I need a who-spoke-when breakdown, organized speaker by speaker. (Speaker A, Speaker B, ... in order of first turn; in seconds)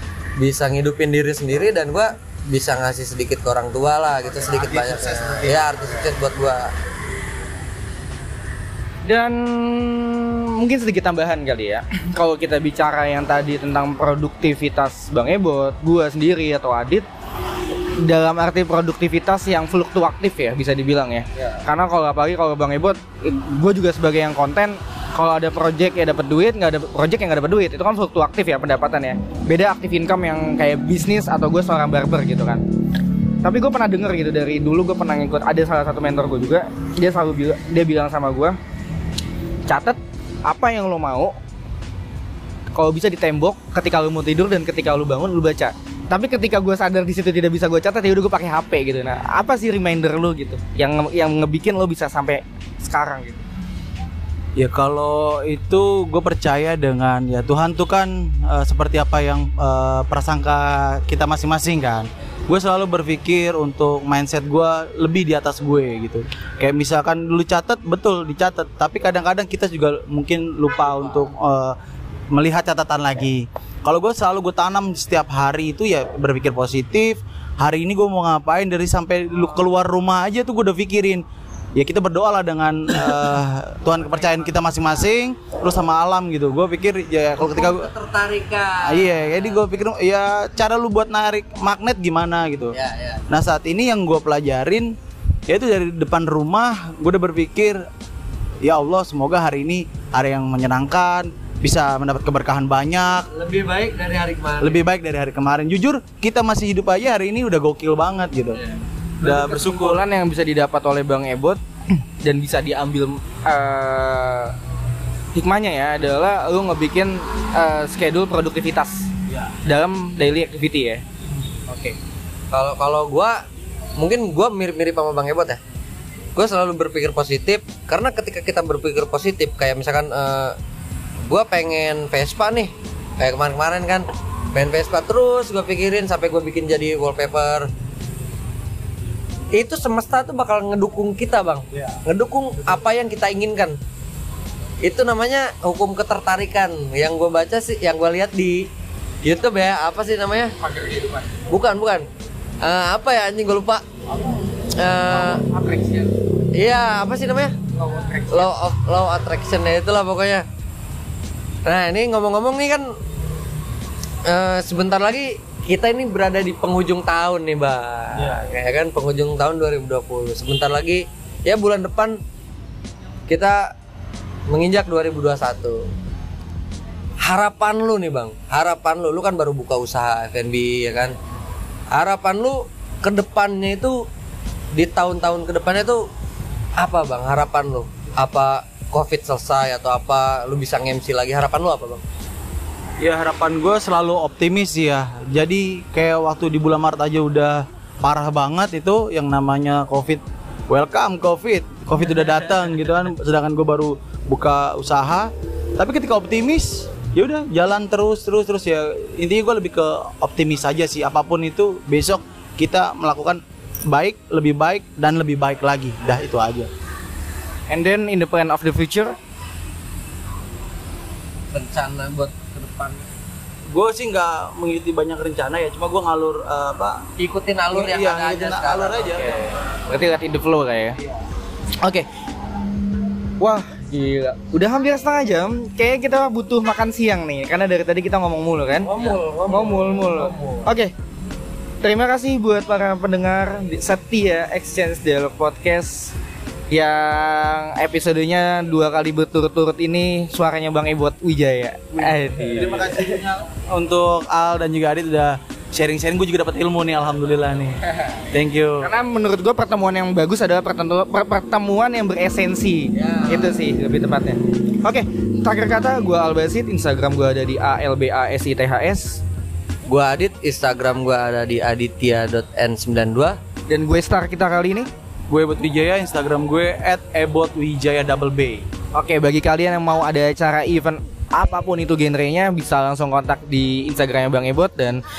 Speaker A: 0.4-6.7, 87.4-89.6, 92.7-93.3, 103.3-104.8, 122.5-123.4, 124.0-125.6, 126.4-130.6, 131.2-137.7, 139.5-143.8, 144.8-148.7, 149.2-150.6, 151.5-152.1, 152.6-153.8, 154.7-155.4, 156.5-157.6, 158.3-160.4, 161.7-162.9, 164.3-172.2, 173.3-173.7, 174.5-175.9, 177.2-181.2, 181.9-184.0, 184.7-186.0, 186.8-192.0, 221.5-223.1, 227.2-229.5, 238.8-240.7, 262.9-263.8, 269.9-273.4
Speaker B: 4.3-6.0, 54.6-71.8, 72.3-81.2, 81.8-87.9, 88.8-92.8, 93.3-95.0, 95.5-97.9, 98.6-103.3, 104.6-108.6, 109.2-110.0, 193.0-216.7, 223.7-227.0, 227.7-229.4, 252.0-258.9, 275.3-278.7
Speaker C: 9.1-17.1, 18.0-32.6, 33.4-38.6, 39.7-41.4, 42.8-53.5, 109.2-114.6, 115.3-119.1, 119.7-121.0, 121.7-122.0, 150.7-151.3, 155.1-156.1, 157.8-158.5, 217.7-219.2, 229.9-231.0, 231.8-232.1, 233.4-240.9, 241.8-246.1, 246.7-253.2, 258.8-269.2, 273.7-274.9, 278.9-285.0